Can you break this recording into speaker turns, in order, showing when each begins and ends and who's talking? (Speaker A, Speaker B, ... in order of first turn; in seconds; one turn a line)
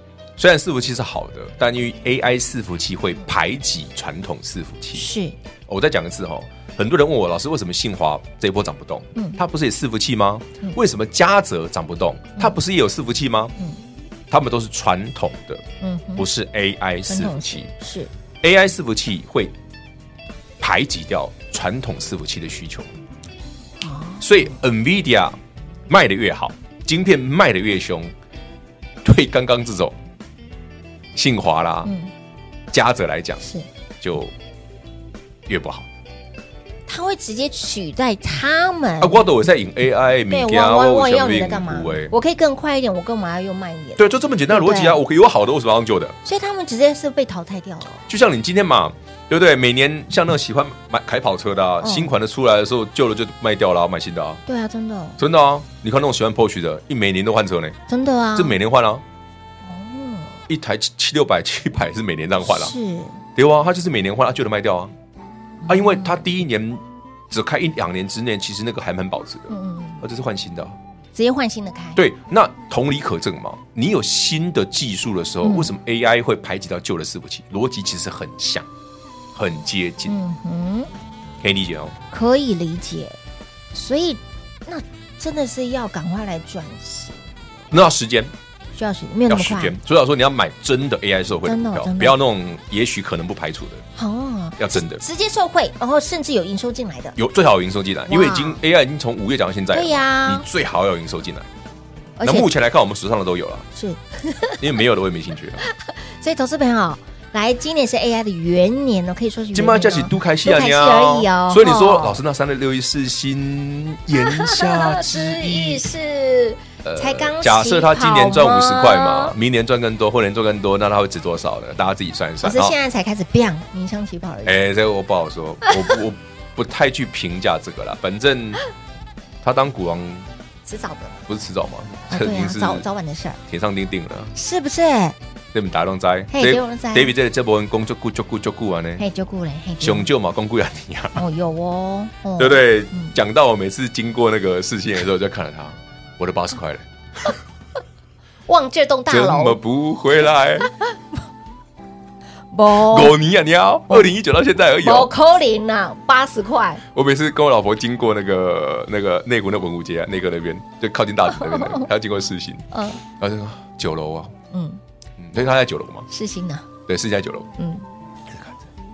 Speaker A: 0.4-5.1
Speaker B: 4.9-5.3
Speaker A: 5.7-13.5
Speaker A: 14.3-15.6
Speaker B: 15.8-16.2
Speaker A: 16.2-17.7
Speaker B: 17.1-18.1
Speaker A: 18.4-19.5
Speaker A: 20.6-22.9
Speaker B: 23.8-24.3
Speaker A: 24.2-28.1
Speaker A: 29.0-29.9
Speaker A: 31.1-31.9
Speaker B: 31.8-32.1
Speaker A: 32.7-33.4
Speaker A: 34.0-34.3
Speaker A: 35.5-35.9
Speaker B: 36.9-39.2
Speaker A: 39.0-42.1
Speaker B: 40.3-45.0
Speaker A: 44.0-46.2
Speaker B: 46.2-48.0
Speaker A: 48.1-54.4
Speaker B: 51.8-52.1
Speaker B: 54.5-55.2
Speaker A: 55.2-57.8
Speaker B: 57.9-58.5
Speaker A: 58.3-59.0
Speaker B: 59.6-60.4
Speaker A: 60.5-62.7
Speaker B: 62.4-63.2
Speaker A: 63.4-64.9
Speaker B: 65.6-66.2
Speaker A: 65.7-70.8
Speaker B: 69.5-70.0
Speaker B: 71.1-72.0
Speaker A: 72.0-78.7
Speaker B: 75.4-75.7
Speaker A: 79.3-80.1
Speaker B: 80.1-80.9
Speaker A: 81.4-81.9
Speaker B: 82.1-83.2
Speaker B: 83.7-87.2
Speaker A: 87.7-88.3
Speaker B: 88.8-89.8
Speaker A: 89.3-93.8
Speaker B: 91.4-92.2
Speaker B: 94.0-97.2
Speaker A: 94.6-95.0
Speaker A: 97.2-101.5
Speaker B: 98.1-98.6
Speaker B: 99.7-100.4
Speaker B: 102.2-102.5
Speaker A: 102.2-103.7
Speaker B: 103.8-104.6
Speaker A: 104.6-105.6
Speaker B: 106.2-112.2
Speaker A: 109.5-115.8
Speaker B: 114.1-119.3
Speaker A: 116.8-122.8
Speaker B: 122.4-124.6
Speaker A: 124.4-128.6
Speaker A: 129.4-130.3
Speaker B: 130.6-131.2
Speaker A: 131.3-132.8
Speaker B: 132.1-133.4
Speaker A: 133.5-134.3
Speaker B: 134.3-135.2
Speaker A: 135.5-139.0
Speaker B: 136.3-137.1
Speaker B: 139.0-140.1
Speaker A: 139.8-141.2
Speaker B: 141.2-143.1
Speaker A: 142.4-147.3
Speaker B: 148.5-149.6
Speaker A: 149.1-150.7
Speaker B: 152.5-153.2
Speaker A: 152.7-155.1
Speaker B: 154.8-156.8
Speaker A: 156.9-164.3
Speaker B: 161.4-161.9
Speaker B: 162.7-163.0
Speaker B: 164.5-164.8
Speaker A: 165.2-166.1
Speaker B: 166.1-166.7
Speaker A: 166.9-167.5
Speaker B: 167.6-167.8
Speaker A: 168.3-168.6